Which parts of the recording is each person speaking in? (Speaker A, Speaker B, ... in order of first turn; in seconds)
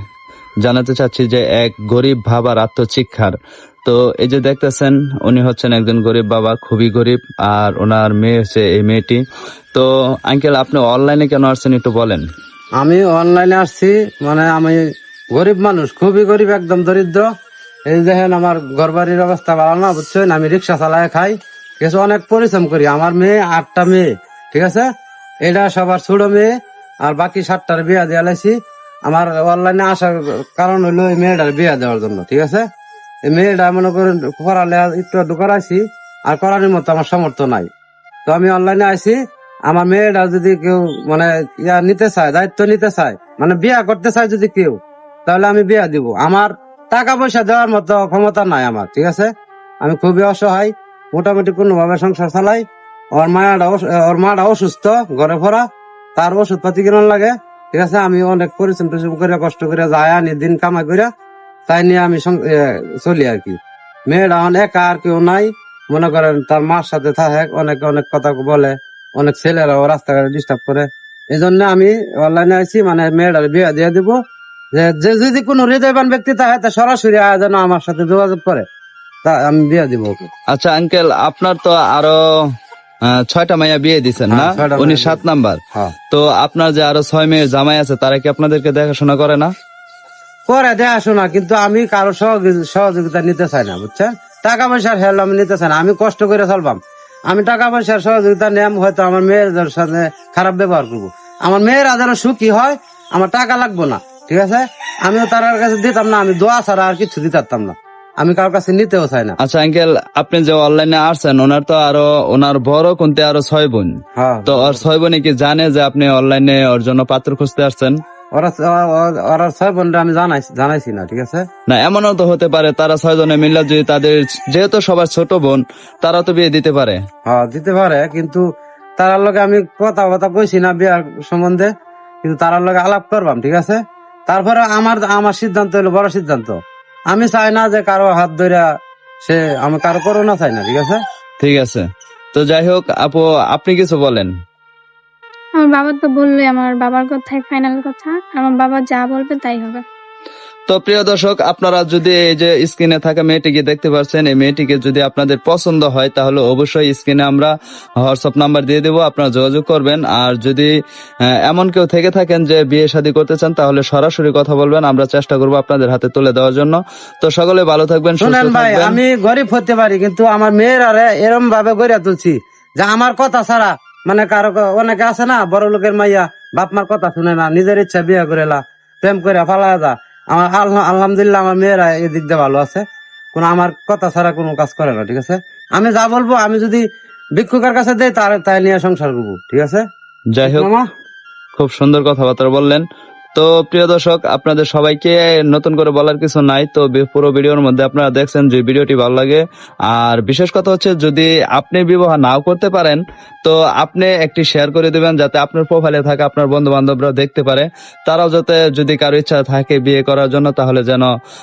Speaker A: 0.6-9.2, 9.7-12.3, 80.5-82.2, 83.0-89.5, 109.4-113.9, 114.5-118.0, 121.7-127.0, 141.4-144.3, 150.7-160.7, 161.2-169.0, 190.3-190.7, 191.6-211.1
Speaker B: 12.8-14.8, 15.3-17.3, 17.9-24.9, 25.4-26.5, 27.0-28.6, 29.1-32.6, 33.3-37.7, 38.3-49.3, 49.8-52.6, 53.2-55.6, 56.2-61.1, 61.7-74.2, 74.8-78.7, 79.2-80.3, 84.3-85.2, 90.5-109.4, 114.2-114.8, 118.3-121.4, 127.3-128.4, 129.0-131.7, 132.2-136.6, 137.1-138.7, 139.2-141.0, 168.2-182.8, 183.3-186.8, 187.4-189.8, 190.4-190.9
Speaker C: 145.6-149.8